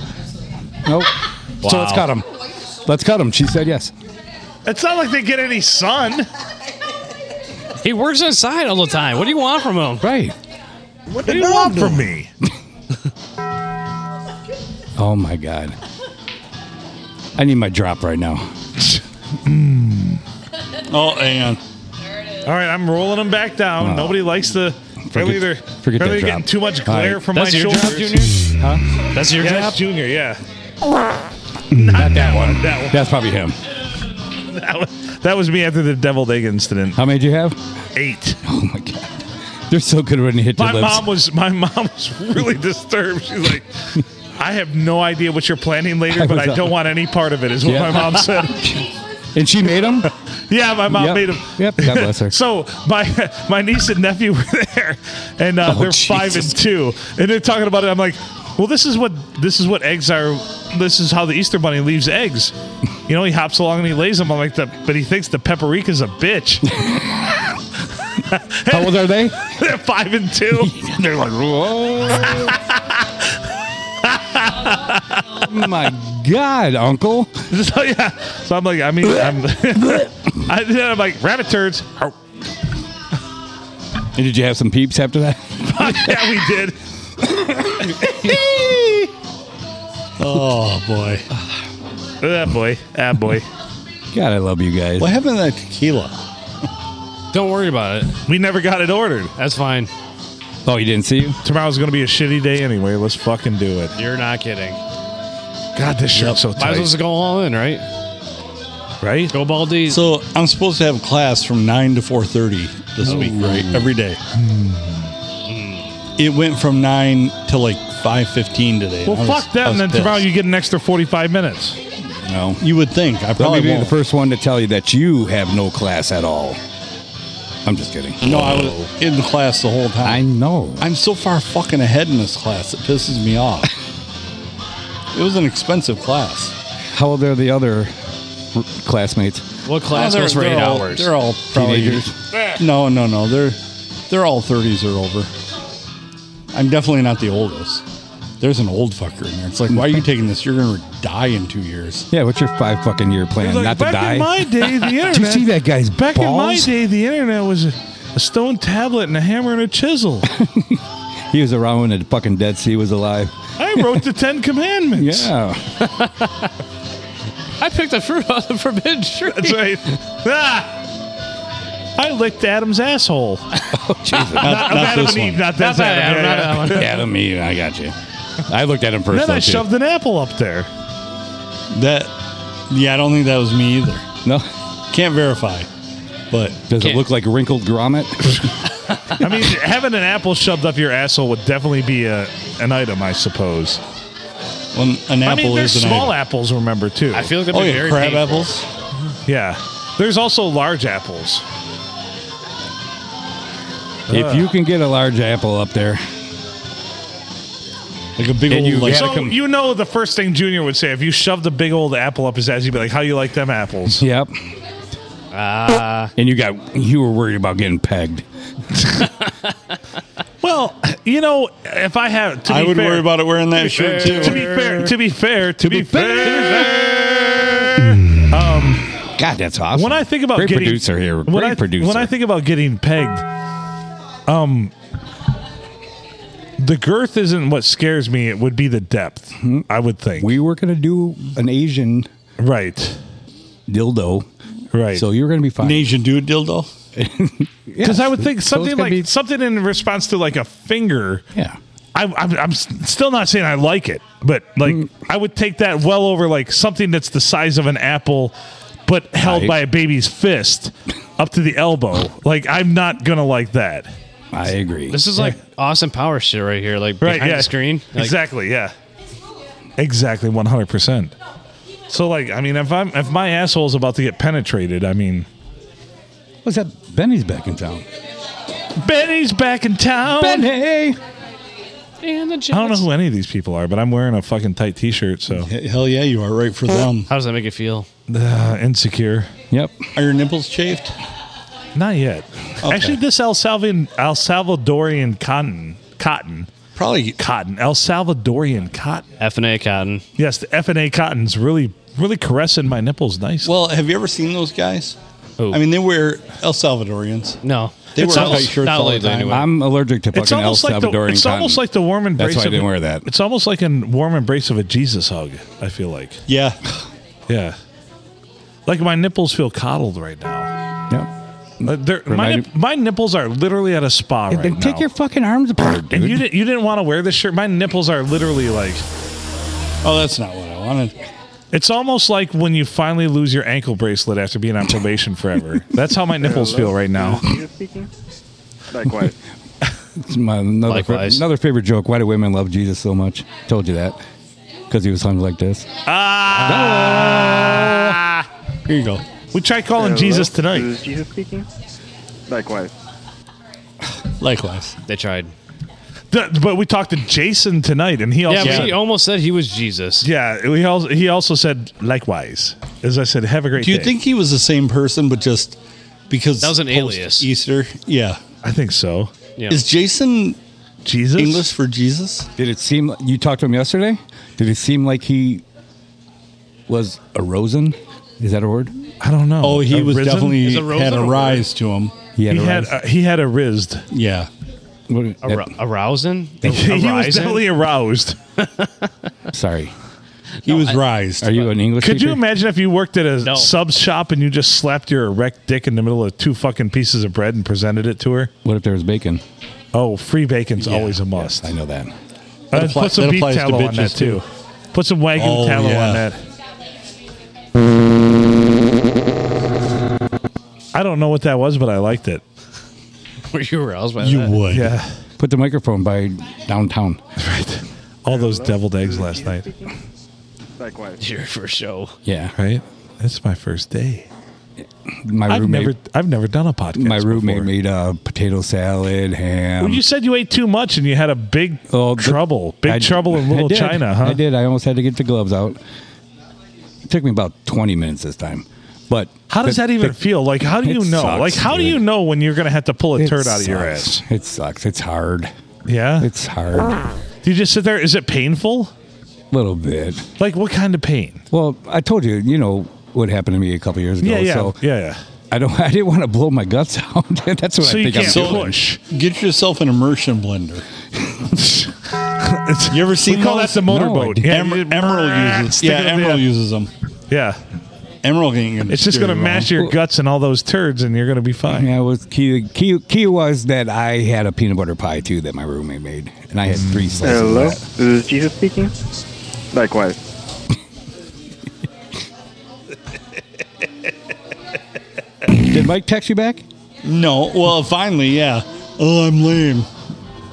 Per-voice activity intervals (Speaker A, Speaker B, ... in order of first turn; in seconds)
Speaker A: 0.8-2.3, 2.8-3.9, 10.0-10.3, 15.0-15.8, 17.4-18.4, 23.8-24.3, 25.1-28.8, 31.7-33.5, 37.0-37.6, 38.4-39.1, 39.7-41.1, 46.1-46.7, 47.6-50.1, 50.9-52.4, 55.6-56.6, 66.7-67.4, 68.7-69.4, 70.5-72.6, 75.3-77.4, 84.1-86.4, 87.4-88.0, 94.1-95.1, 100.6-101.4, 113.0-113.9, 122.2-122.6, 123.4-126.6, 127.6-128.9, 130.0-130.9, 136.9-137.9, 138.5-139.4, 141.5-142.1, 149.7-150.0, 152.1-156.7, 160.2-163.8, 164.9-165.6, 173.7-174.8, 176.6-177.9, 178.5-179.7, 186.7-188.4, 204.1-206.0, 208.5-209.4, 214.0-214.3, 216.2-218.2, 225.7-227.0, 229.2-232.1, 239.4-242.1, 243.7-244.3, 244.9-245.9, 246.9-249.1, 259.2-259.6, 264.3-265.2, 276.4-277.8, 280.1-281.0, 289.5-289.8, 309.3-311.6, 312.1-313.1, 321.6-322.5, 324.3-326.2, 339.9-344.0, 344.7-345.7, 346.4-348.0, 372.4-375.4, 376.7-378.7, 382.1-382.7, 384.9-385.5, 389.3-389.7, 391.2-392.2, 398.4-399.2, 401.2-401.9, 415.2-417.0, 422.0-422.3, 424.9-425.7, 426.7-429.8, 431.7-435.6, 436.9-441.8, 443.0-445.3, 446.0-446.8, 449.3-450.0, 451.3-454.6, 455.3-458.5, 463.6-464.3, 471.5-477.6, 485.3-486.4
Speaker B: 1.6-2.1, 7.8-10.1, 27.3-28.4, 29.1-29.8, 97.3-98.1, 99.4-99.9, 103.9-104.8, 106.5-107.8, 109.3-110.0, 115.5-115.9, 139.7-141.1, 165.8-166.5, 167.6-169.8, 175.5-177.0, 197.1-198.5, 215.3-216.1, 223.6-224.9, 226.1-226.8, 264.9-268.1, 282.0-282.9, 287.1-287.9, 299.2-300.0, 307.4-309.5, 340.7-341.2, 354.9-355.3, 358.3-360.1, 366.4-367.3, 369.4-369.6, 380.4-381.4, 385.2-387.4, 388.4-388.7, 390.4-391.5, 393.2-393.5, 413.3-414.4, 421.0-421.9
Speaker C: 4.6-6.3, 11.2-12.3, 19.4-20.2, 22.4-28.2, 29.4-30.4, 31.7-33.0, 34.5-37.0, 38.0-38.4, 40.6-43.7, 44.4-48.7, 50.5-62.5, 63.1-66.7, 68.3-70.8, 72.3-73.0, 74.0-75.2, 77.5-82.1, 85.7-86.8, 87.9-89.1, 92.2-93.5, 98.3-99.3, 101.4-103.9, 105.8-107.0, 109.0-109.3, 114.3-115.1, 119.0-121.8, 153.4-160.3, 163.6-165.3, 169.3-170.7, 172.0-173.5, 174.3-177.0, 179.1-180.7, 189.1-193.8, 195.2-197.3, 199.2-201.4, 204.1-204.5, 208.8-214.0, 220.4-223.2, 223.8-228.8, 229.7-233.2, 234.3-234.7, 236.6-240.3, 242.4-243.0, 244.7-245.0, 247.8-251.2, 251.9-258.3, 258.9-263.9, 267.0-268.7, 269.8-271.1, 271.9-275.3, 278.8-280.5, 282.5-285.5, 288.1-289.3, 291.7-296.5, 297.2-299.1, 300.2-303.5, 308.0-308.6, 310.1-316.2, 317.3-317.6, 318.7-320.5, 321.6-324.8, 325.9-328.8, 331.5-337.3, 345.9-348.2, 349.3-350.7, 356.1-358.8, 360.0-363.9, 368.4-369.1, 370.8-371.5, 379.0-380.5, 382.3-383.9, 386.4-388.2, 391.8-398.3, 399.7-401.5, 402.5-406.2, 410.7-412.2, 414.5-414.9, 417.2-419.5, 422.4-424.1, 425.3-427.5, 429.6-434.2, 439.3-444.0, 445.6-446.1, 447.2-448.7, 450.2-451.2, 454.0-455.0, 457.6-458.8, 461.3-466.2, 467.1-467.4, 468.7-471.7
Speaker D: 20.9-21.6, 90.2-91.2, 95.0-96.1, 109.8-114.2, 116.2-120.2, 122.6-123.9, 128.2-130.2, 130.8-133.7, 135.1-136.5, 139.9-145.3, 146.5-147.8, 148.4-152.1, 174.4-175.4, 181.7-182.1, 182.7-184.0, 184.9-185.7, 186.3-186.6, 194.7-196.2, 197.5-198.7, 208.2-209.0, 222.4-224.4, 245.6-246.7, 285.3-287.1, 289.9-290.9, 292.6-292.9, 296.8-297.2, 303.4-305.0, 305.5-307.4, 307.9-309.4, 316.3-316.6, 329.8-331.0, 348.6-349.0, 354.2-354.7, 358.4-358.7, 363.6-368.2, 369.5-370.4, 371.1-372.3, 379.4-381.9, 383.9-384.3, 390.4-391.4, 402.5-404.2, 405.1-406.0, 414.0-414.7, 458.0-460.6, 462.7-463.7, 464.2-466.7, 468.0-469.5, 486.8-489.7
Speaker E: 336.2-337.9, 338.7-339.1, 349.8-351.5, 352.3-352.7, 418.1-419.7, 420.6-421.0, 477.0-478.7, 479.5-480.0